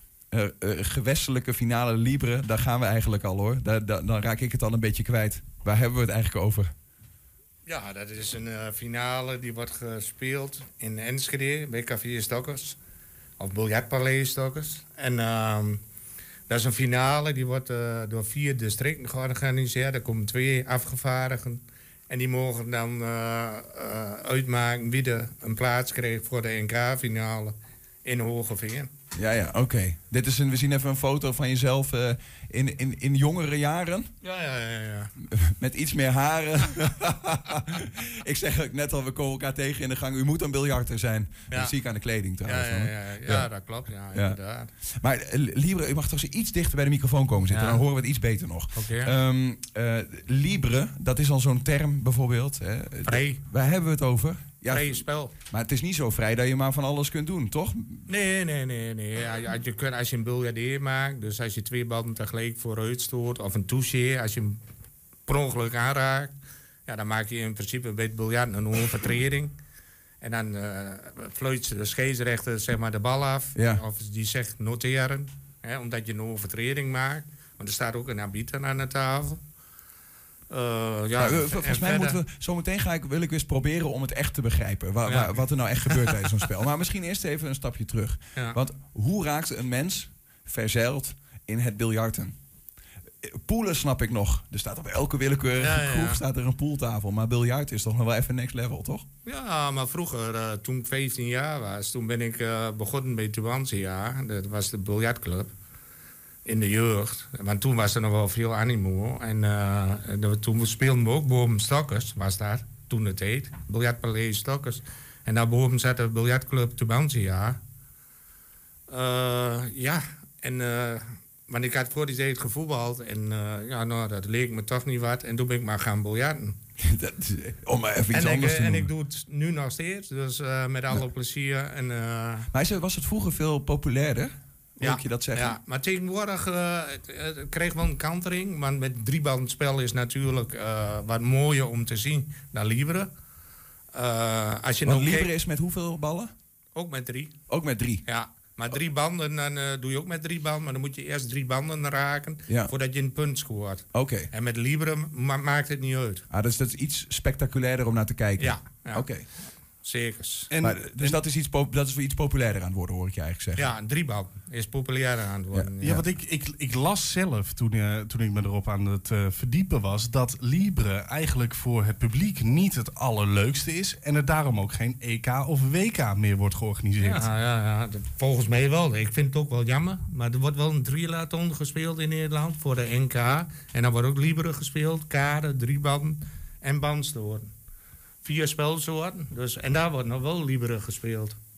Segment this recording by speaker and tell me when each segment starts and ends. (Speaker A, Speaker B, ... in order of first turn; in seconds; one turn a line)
Speaker A: 0.3-6.7
Speaker B: 7.7-12.8
Speaker B: 13.4-15.8
Speaker B: 16.5-28.9
Speaker A: 29.1-34.1
Speaker B: 34.2-35.1
Speaker A: 35.3-43.5
Speaker B: 42.4-44.7
Speaker A: 44.9-58.0
Speaker B: 47.5-47.8
Speaker B: 48.7-49.1
Speaker B: 53.0-53.4
Speaker B: 54.7-55.3
Speaker B: 58.1-64.6
Speaker B: 65.3-66.3
Speaker B: 66.9-69.5
Speaker B: 70.2-79.4
Speaker A: 73.5-73.8
Speaker B: 80.5-82.2
Speaker A: 81.2-92.3
Speaker B: 85.0-86.2
Speaker A: 93.2-99.0
Speaker B: 95.6-96.2
Speaker B: 99.2-105.5
Speaker B: 106.4-117.6
Speaker B: 118.9-126.5
Speaker A: 126.8-128.9
Speaker B: 128.1-132.5
Speaker A: 132.5-135.6
Speaker B: 134.8-143.1
Speaker B: 143.9-145.3
Speaker A: 144.8-146.3
Speaker B: 146.7-147.3
Speaker A: 147.5-148.0
Speaker B: 148.1-156.2
Speaker A: 153.9-154.3
Speaker A: 156.3-159.2
Speaker B: 158.4-159.1
Speaker B: 159.8-160.5
Speaker C: 160.5-161.2
Speaker A: 160.6-163.7
Speaker B: 163.6-166.1
Speaker C: 165.8-177.3
Speaker B: 177.0-187.5
Speaker B: 188.2-191.3